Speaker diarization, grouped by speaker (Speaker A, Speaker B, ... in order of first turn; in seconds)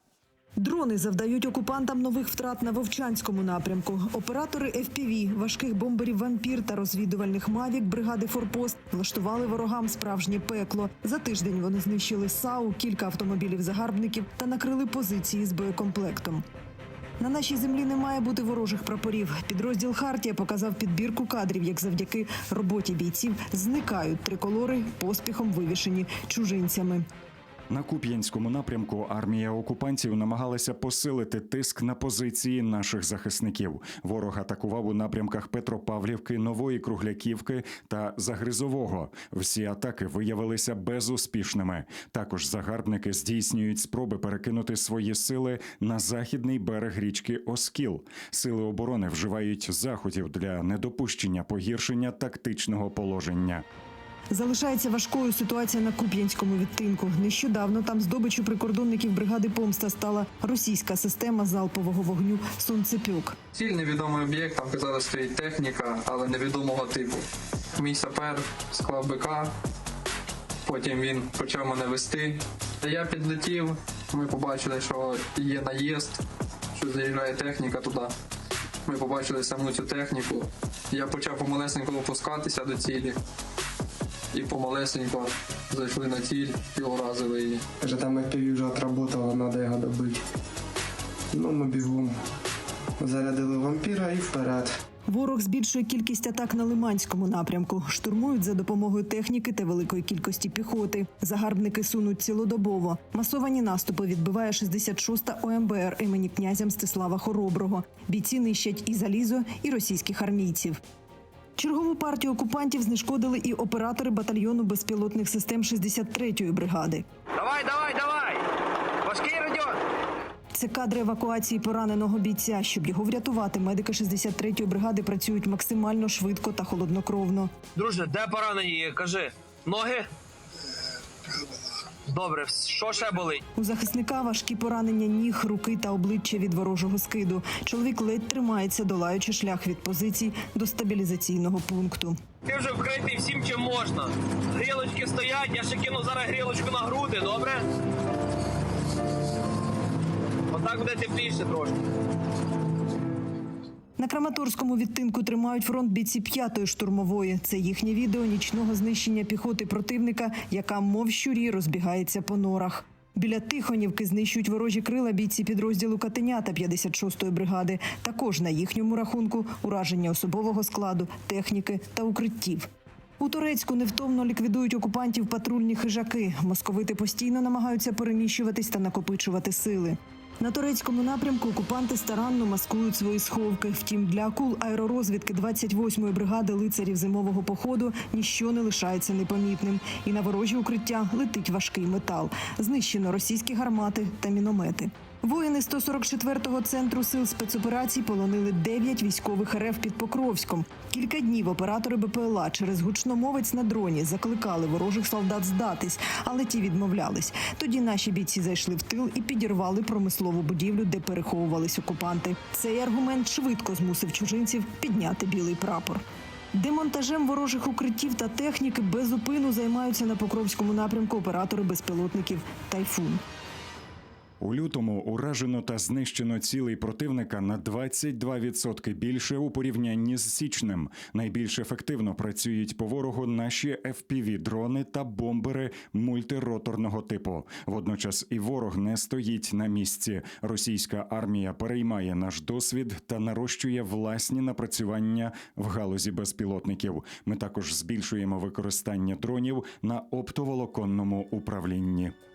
Speaker A: 0.6-16.4, 17.2-27.1, 54.3-63.4, 95.1-110.8, 111.6-117.0, 120.5-127.5, 133.6-142.2, 154.0-172.7, 173.2-216.0, 216.5-223.2
Speaker B: 27.7-53.6, 224.4-252.1
Speaker C: 63.5-67.2, 67.8-69.5, 70.7-76.2, 76.8-78.1, 78.9-83.2, 84.3-87.6
Speaker D: 87.8-90.2, 91.3-92.2, 93.0-94.8
Speaker E: 117.3-118.5, 119.0-119.8, 127.8-130.1, 132.1-133.4, 142.5-147.7, 150.5-151.8